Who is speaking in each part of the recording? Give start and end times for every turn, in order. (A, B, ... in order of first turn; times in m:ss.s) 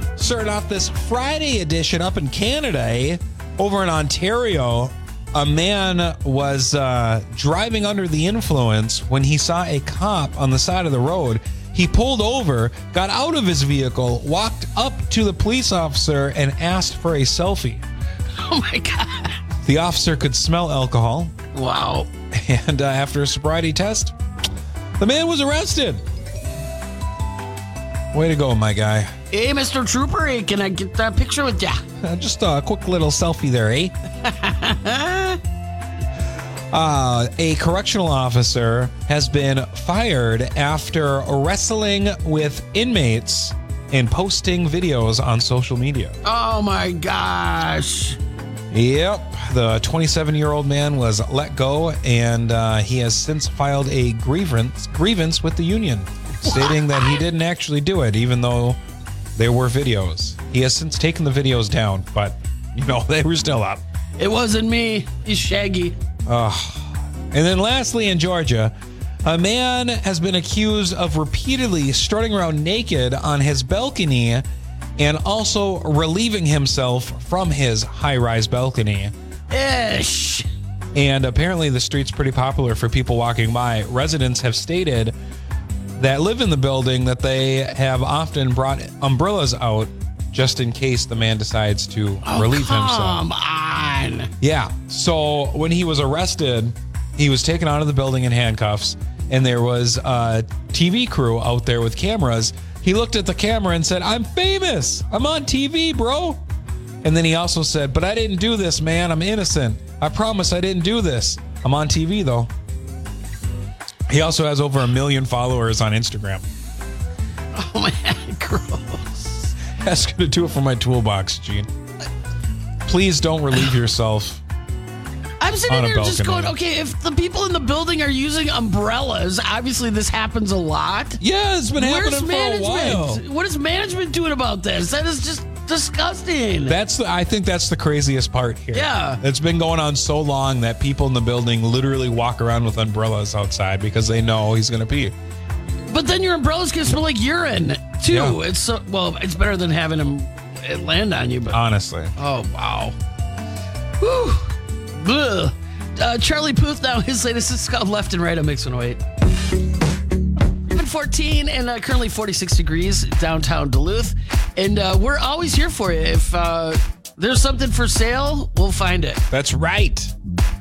0:00.2-0:17.8 A
0:18.3-0:19.4 B
0:19.6-0:21.4 A
0:21.5-0:22.1 B
0:22.3-0:24.2 A
0:25.0-0:26.0 A
0:28.1-0:29.1 A
0:29.3-0:31.8 B
0:32.0-0:33.9 A
0:34.2-0:35.4 B
0:36.7-0:46.2 A
0:46.2-0:48.2 B
0:48.7-0:58.8 A
0:56.4-0:57.2 B
0:59.4-1:03.8 A
1:04.2-1:06.0 B
1:06.3-1:14.4 A
1:15.0-1:19.1 A
1:19.5-1:20.5 B
1:20.9-1:25.2 A
1:26.0-1:33.2 A
1:32.2-1:34.3 B
1:34.4-1:46.4 A
1:47.0-1:52.5 A
1:54.1-1:56.4 A
1:57.5-1:59.6 B
1:59.7-2:01.7 A
2:02.9-2:04.4 A
2:05.4-2:11.2 B
2:05.7-2:06.5 A
2:11.2-2:13.2 A
2:11.8-2:16.8 B
2:16.7-2:25.2 A
2:18.7-2:19.2 B
2:25.9-2:31.6 B
2:28.1-2:28.4 A
2:31.5-2:32.1 A
2:32.2-2:32.9 B
2:34.0-2:39.0 B
2:40.7-2:49.2 B
2:49.3-2:50.1 A